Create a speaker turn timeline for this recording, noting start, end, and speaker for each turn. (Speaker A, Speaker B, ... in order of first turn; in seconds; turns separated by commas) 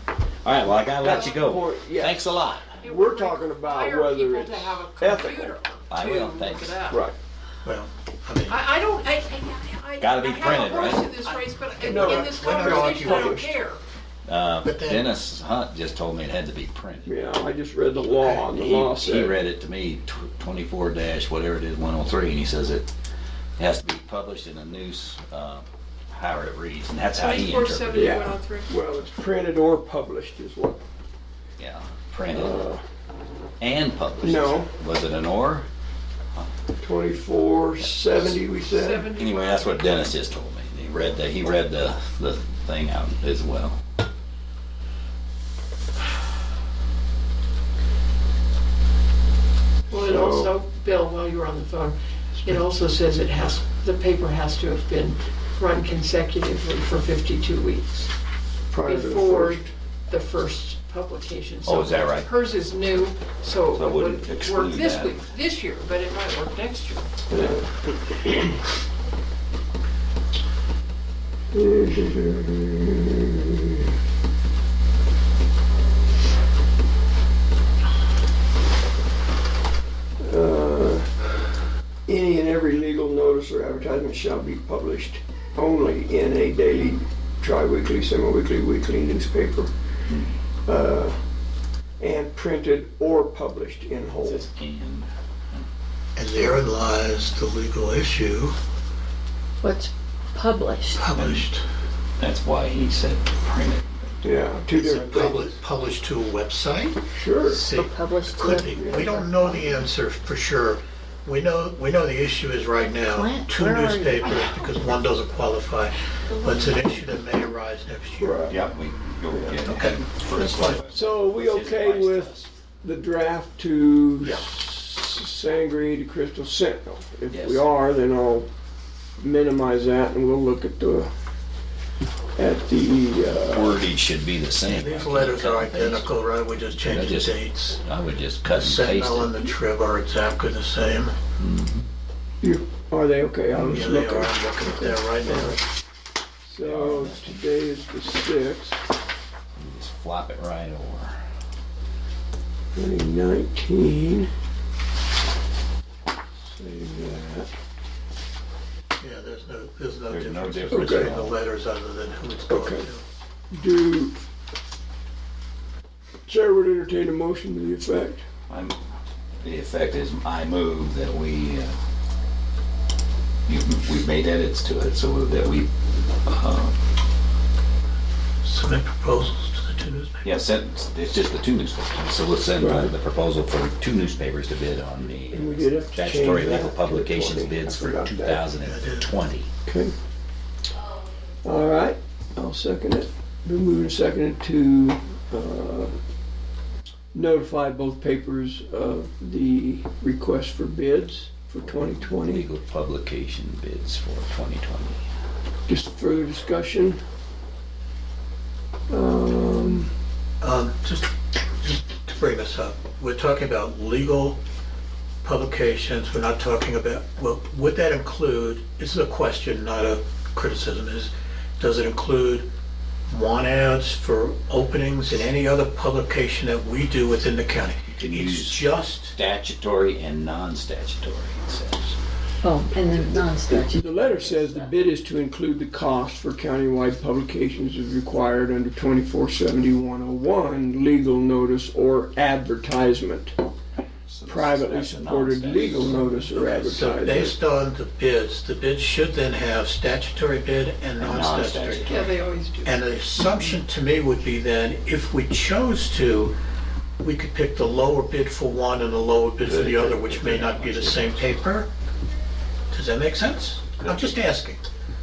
Speaker A: 0.4-2.8, Speaker B: 1.0-5.5, Speaker C: 2.8-7.0, Speaker A: 5.9-6.8, Speaker B: 6.9-7.1, Speaker D: 7.6-8.6, Speaker C: 8.4-13.8, Speaker A: 10.0-11.1, Speaker D: 11.7-13.6, Speaker B: 11.8-13.5, Speaker A: 14.2-17.1, Speaker D: 14.6-15.1, Speaker B: 17.0-19.4, Speaker A: 18.3-22.9, Speaker A: 23.6-28.1, Speaker C: 27.1-28.7, Speaker B: 27.9-30.8, Speaker A: 31.6-32.6, Speaker B: 32.3-32.8, Speaker A: 33.6-35.7, Speaker B: 34.2-34.7, Speaker B: 36.8-39.1, Speaker A: 37.8-38.1, Speaker C: 38.5-40.0, Speaker A: 39.1-43.8, Speaker C: 49.9-58.1, Speaker B: 49.9-50.5, Speaker B: 58.7-59.7, Speaker C: 58.8-67.1, Speaker A: 61.6-62.3, Speaker A: 63.7-65.2, Speaker B: 67.3-68.5, Speaker B: 71.5-73.8, Speaker B: 80.2-81.1, Speaker B: 82.1-89.7, Speaker B: 90.6-91.2, Speaker B: 92.0-94.5, Speaker A: 94.2-95.7, Speaker D: 96.2-98.5, Speaker E: 99.6-101.0, Speaker D: 101.0-101.6, Speaker A: 101.1-101.5, Speaker A: 102.2-104.2, Speaker B: 104.2-105.5, Speaker D: 104.7-118.4, Speaker B: 107.2-107.6, Speaker E: 107.6-109.7, Speaker B: 108.8-109.2, Speaker E: 113.0-114.6, Speaker E: 116.4-117.0, Speaker B: 118.2-118.5, Speaker A: 118.5-122.5, Speaker D: 119.7-120.8, Speaker B: 120.9-128.5, Speaker A: 127.3-127.6, Speaker B: 129.2-131.1, Speaker B: 132.3-133.8, Speaker A: 133.5-136.1, Speaker D: 134.7-137.8, Speaker A: 136.8-139.3, Speaker D: 138.4-141.1, Speaker A: 141.4-141.9, Speaker B: 142.4-145.6, Speaker D: 143.5-145.6, Speaker B: 146.4-148.8, Speaker A: 146.6-147.3, Speaker A: 149.6-151.2, Speaker B: 152.7-154.3, Speaker B: 156.4-157.5, Speaker D: 159.0-163.0, Speaker A: 160.1-161.4, Speaker B: 160.7-161.2, Speaker B: 162.5-162.9, Speaker B: 163.5-164.2, Speaker B: 166.3-168.2, Speaker A: 168.5-168.8, Speaker A: 169.4-171.8, Speaker A: 173.5-175.7, Speaker A: 176.2-176.8, Speaker D: 178.4-180.2, Speaker A: 180.2-189.5, Speaker B: 182.6-182.9, Speaker B: 185.3-188.4, Speaker D: 188.6-189.1, Speaker B: 189.6-189.9, Speaker B: 191.4-195.9, Speaker B: 197.1-202.5, Speaker A: 201.8-205.0, Speaker B: 205.7-207.0, Speaker B: 208.9-209.9, Speaker D: 210.4-214.4, Speaker D: 215.2-222.5, Speaker D: 223.1-229.2, Speaker A: 227.9-231.9, Speaker E: 232.4-234.7, Speaker B: 233.5-243.3, Speaker A: 244.1-246.2, Speaker B: 244.2-247.3, Speaker D: 246.3-256.3, Speaker A: 251.0-252.1, Speaker C: 251.8-252.8, Speaker D: 257.0-261.7, Speaker A: 259.4-261.4, Speaker D: 262.7-264.6, Speaker A: 263.8-264.1